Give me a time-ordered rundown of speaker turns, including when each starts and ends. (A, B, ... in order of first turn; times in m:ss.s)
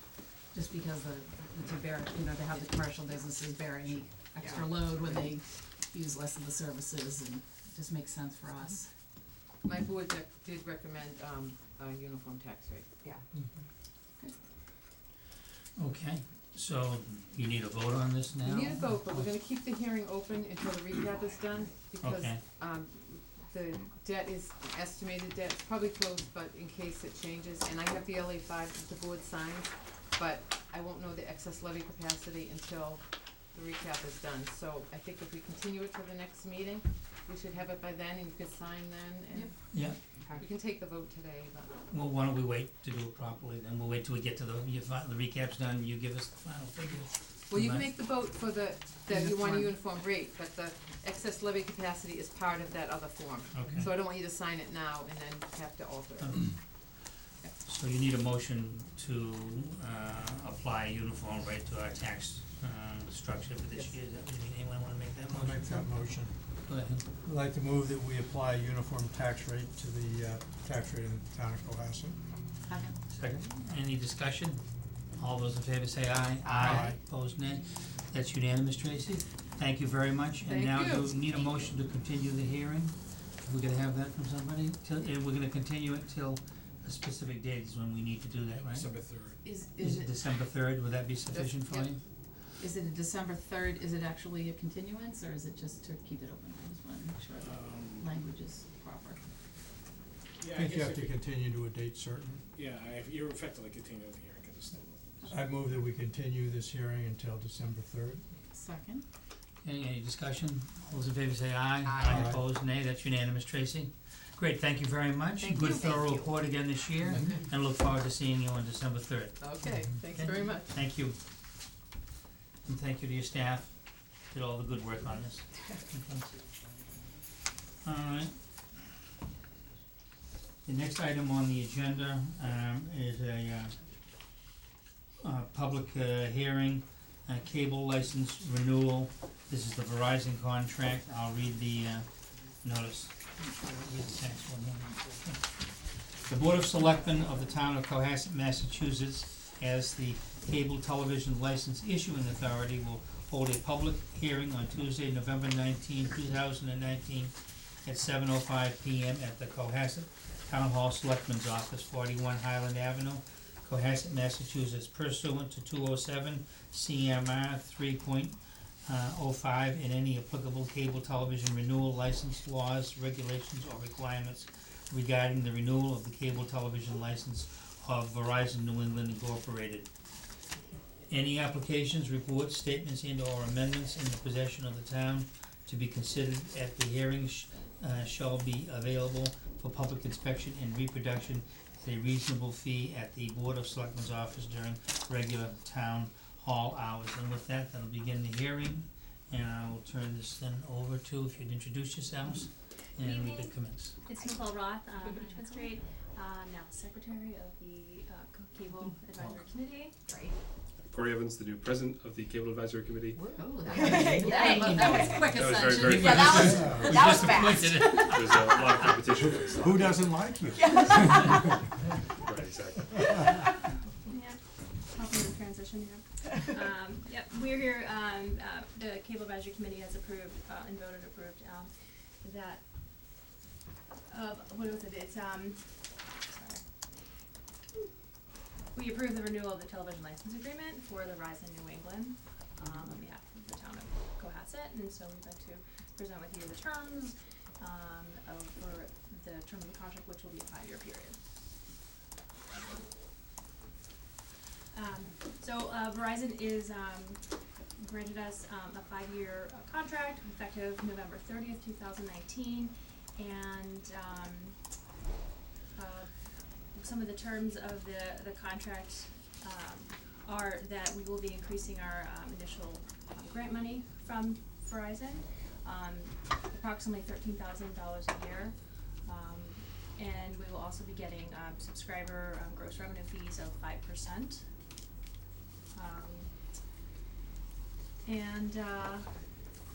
0:00.4-0:08.9 A
0:04.3-0:05.3 B
0:09.6-0:13.3 B
0:15.8-0:19.3 C
0:18.4-0:39.6 B
0:22.0-0:22.4 C
0:39.7-0:40.0 C
0:40.3-0:41.8 B
0:41.8-0:47.9 C
0:47.5-0:56.8 B
0:49.1-0:49.7 A
0:53.5-0:53.9 C
0:56.2-0:56.6 C
0:57.6-1:06.1 C
1:05.3-1:06.5 D
1:06.7-1:07.0 C
1:07.2-1:12.2 D
1:12.7-1:13.0 A
1:13.1-1:29.0 C
1:16.4-1:16.9 B
1:16.6-1:17.0 D
1:20.5-1:21.2 B
1:28.6-1:29.6 E
1:29.4-1:30.1 A
1:29.6-1:32.0 C
1:31.3-1:31.9 B
1:32.6-1:39.2 A
1:37.4-1:38.1 E
1:40.4-1:41.2 E
1:40.5-1:42.5 D
1:42.5-1:45.3 E
1:45.3-1:48.3 D
1:48.5-1:49.1 A
1:49.6-2:01.2 C
1:51.8-1:52.4 B
1:52.0-1:52.4 D
1:55.4-1:56.3 A
1:59.4-2:00.7 B
2:02.6-2:06.3 C
2:07.8-2:08.4 C
2:10.6-2:13.8 C
2:15.2-2:59.9 C
3:01.1-3:24.0 C
3:23.0-3:30.0 F
3:30.8-3:33.2 G
3:33.2-3:38.6 A
3:33.8-3:35.0 B
3:34.4-3:35.0 C
3:34.8-3:37.6 G
3:35.7-3:39.1 C
3:36.4-3:36.9 D
3:38.1-3:40.9 G
3:39.3-3:41.4 D
3:40.6-3:41.3 A
3:42.3-3:43.0 G
3:44.1-3:44.4 F
3:44.9-3:51.7 F
3:52.2-3:52.6 F
3:54.1-3:56.6 F
3:58.7-4:11.2 F
4:14.7-4:17.2 F
4:17.8-4:24.6 F
4:25.8-4:26.2 F
4:26.8-4:44.4 F
4:45.7-4:46.3 F
4:48.0-4:49.1 F